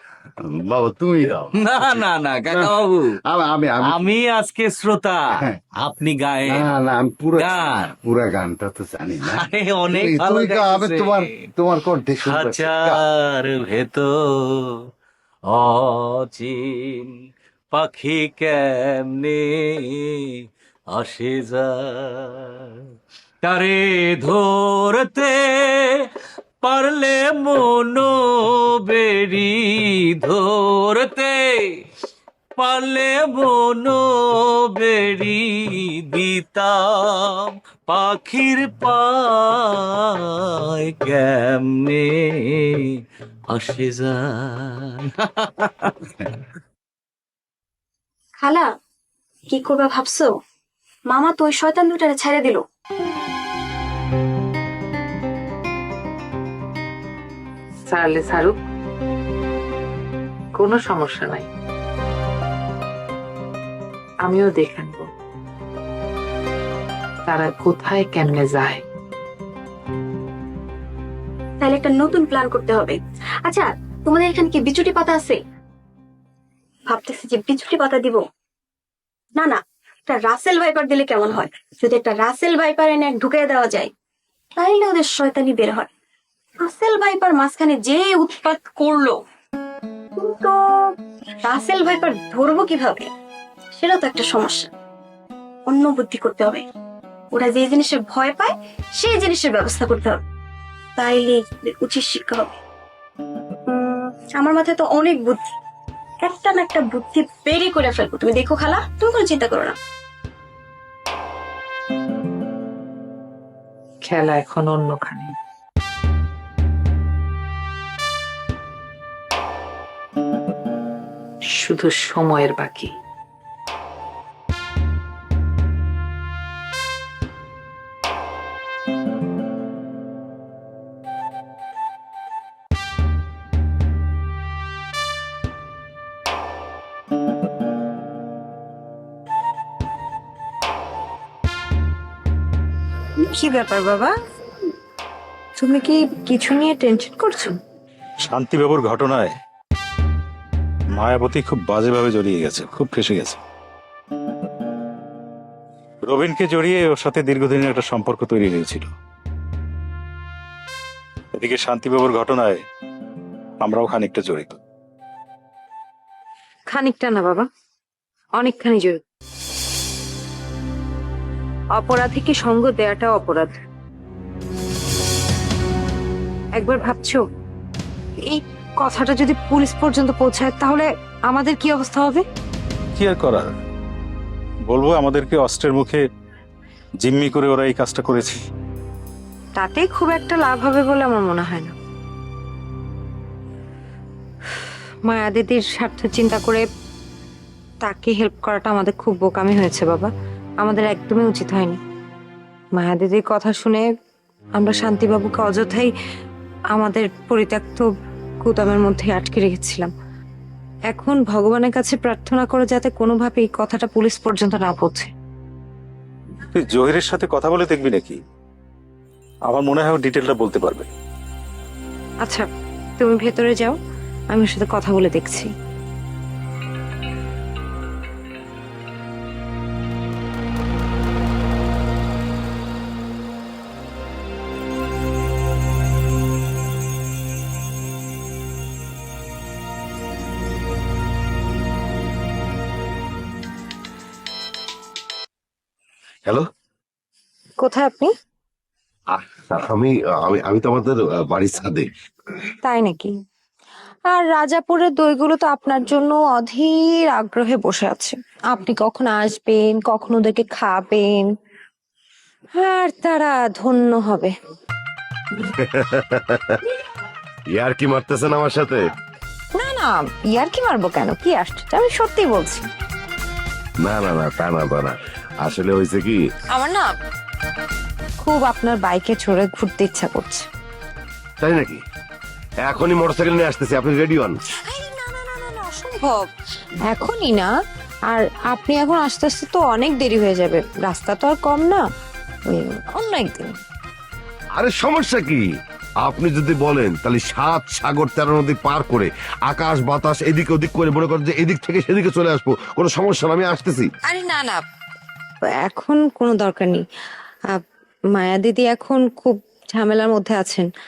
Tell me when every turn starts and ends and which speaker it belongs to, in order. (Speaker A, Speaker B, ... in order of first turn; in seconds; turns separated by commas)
Speaker A: 0.4-4.1, Speaker B: 1.6-3.2, Speaker B: 3.8-6.7, Speaker A: 5.4-5.7, Speaker A: 6.5-13.0, Speaker B: 7.3-8.0, Speaker B: 9.3-11.5, Speaker B: 12.2-14.6, Speaker B: 15.5-17.1, Speaker B: 17.7-20.1, Speaker B: 20.9-22.6, Speaker B: 23.4-25.9, Speaker B: 26.6-31.5, Speaker B: 32.6-34.1, Speaker B: 34.7-39.7, Speaker B: 40.8-42.2, Speaker B: 43.5-45.9, Speaker C: 48.4-48.7, Speaker C: 49.5-50.3, Speaker C: 51.1-52.6, Speaker D: 57.9-58.5, Speaker D: 60.6-61.5, Speaker D: 64.3-65.0, Speaker D: 67.3-68.8, Speaker C: 71.6-75.4, Speaker C: 76.9-78.2, Speaker C: 79.4-83.9, Speaker C: 84.6-85.9, Speaker C: 86.6-89.2, Speaker C: 90.2-90.6, Speaker C: 91.4-93.1, Speaker C: 93.8-94.7, Speaker C: 95.7-96.6, Speaker C: 97.3-100.2, Speaker C: 101.0-102.5, Speaker C: 104.4-105.5, Speaker C: 106.2-109.8, Speaker D: 114.1-115.3, Speaker D: 121.7-122.9, Speaker E: 143.3-144.1, Speaker E: 145.6-147.6, Speaker F: 148.3-149.3, Speaker F: 151.0-153.4, Speaker F: 156.1-158.9, Speaker F: 161.4-162.6, Speaker F: 163.6-164.6, Speaker E: 166.7-167.5, Speaker E: 168.4-169.0, Speaker E: 171.8-173.5, Speaker E: 176.6-177.2, Speaker E: 178.3-182.2, Speaker F: 183.0-183.5, Speaker F: 184.7-186.0, Speaker F: 187.0-188.4, Speaker E: 189.6-191.7, Speaker E: 195.1-196.7, Speaker E: 197.8-200.1, Speaker E: 200.6-201.8, Speaker E: 202.8-203.8, Speaker E: 204.6-205.9, Speaker E: 206.8-207.9, Speaker E: 208.4-209.9, Speaker E: 210.9-215.1, Speaker F: 216.6-218.2, Speaker F: 219.5-220.9, Speaker E: 223.0-223.8, Speaker E: 224.3-225.5, Speaker E: 247.6-248.1, Speaker G: 249.1-251.9, Speaker E: 252.7-253.1, Speaker E: 254.1-261.3, Speaker E: 262.6-264.3, Speaker G: 265.6-266.6, Speaker G: 267.5-268.8, Speaker E: 269.6-272.7, Speaker G: 273.8-276.2, Speaker E: 276.5-276.9, Speaker E: 278.2-280.5, Speaker G: 281.4-281.8, Speaker G: 282.6-284.4, Speaker E: 284.7-286.3, Speaker E: 286.9-287.5, Speaker E: 288.1-291.8, Speaker E: 292.5-293.5, Speaker G: 294.6-295.4, Speaker G: 296.0-303.9, Speaker E: 304.1-304.6, Speaker E: 305.6-306.8, Speaker E: 308.2-310.7